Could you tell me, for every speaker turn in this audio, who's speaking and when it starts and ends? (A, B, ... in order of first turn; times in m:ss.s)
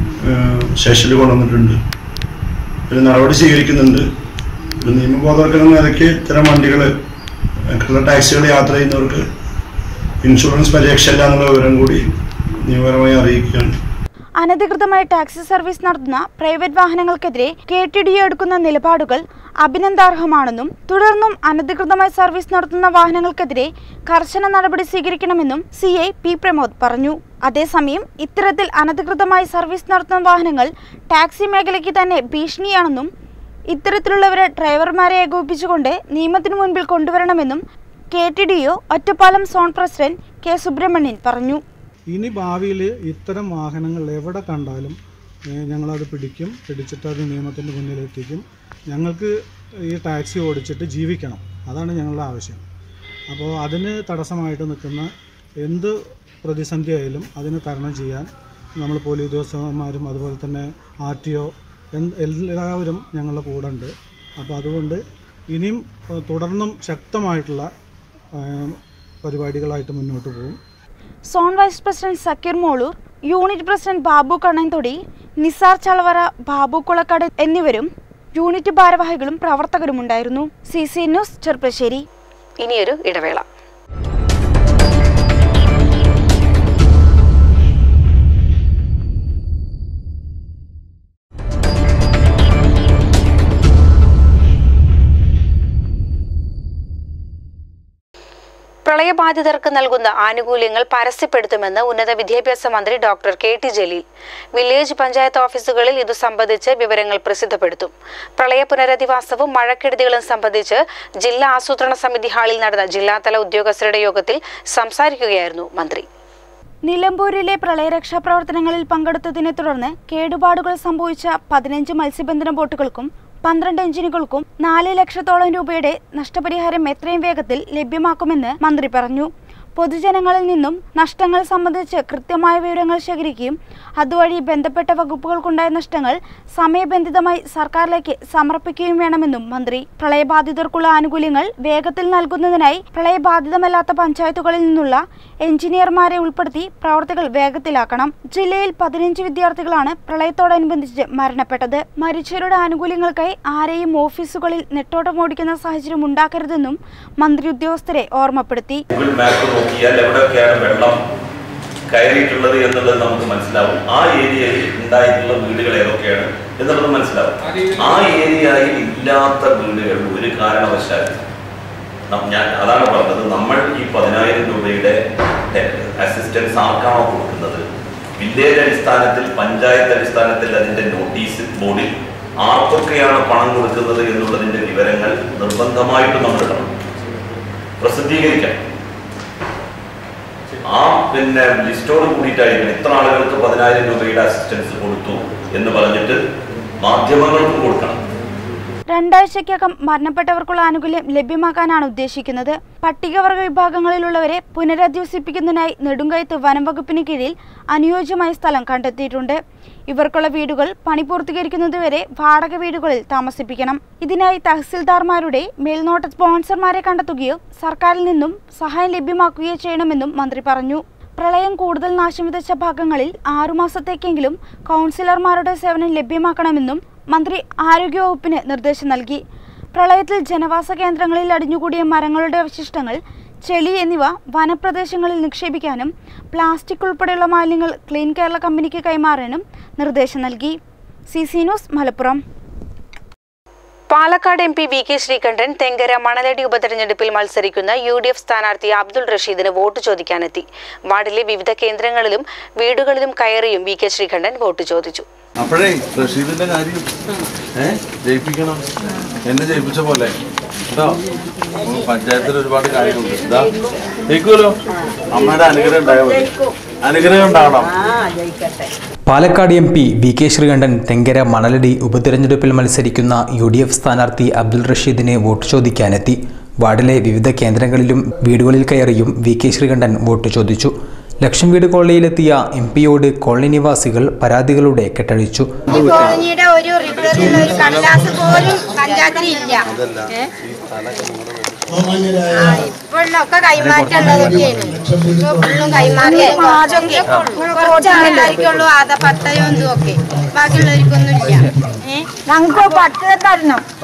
0:00.2-0:01.8 A
0:02.9-0:04.0 A
0:04.8-0:06.9 A
0:07.7-0:09.2 A
0:10.2-0:12.0 A
0:12.6-0:13.8 A
0:14.4-0:33.1 B
0:33.7-0:37.6 B
0:38.1-0:41.6 B
0:42.1-0:45.0 C
0:45.5-0:49.3 C
0:49.9-0:52.6 C
0:53.3-0:55.1 C
0:55.6-0:58.3 C
0:58.8-1:05.0 C
1:05.5-1:07.7 C
1:08.3-1:10.6 C
1:11.3-1:22.0 B
1:22.6-1:23.4 D
1:38.8-1:44.0 D
1:44.5-1:56.0 D
1:56.8-2:38.8 B
2:38.9-2:41.0 E
2:41.9-2:51.2 E
2:52.1-2:55.0 E
2:55.5-2:57.6 E
2:58.2-3:06.7 E
3:07.8-3:08.6 E
3:10.6-3:16.2 E
3:16.8-3:18.0 E
3:18.9-3:49.2 B
3:49.7-4:00.6 B
4:01.1-4:02.2 B
4:03.9-4:15.0 D
4:15.4-4:16.8 F
4:17.6-4:18.6 F
4:19.3-4:20.1 F
4:22.1-4:23.4 F
4:25.2-4:25.5 F
4:25.4-4:26.5 G
4:29.1-4:45.5 H
4:45.7-4:50.3 G
4:52.3-5:03.6 G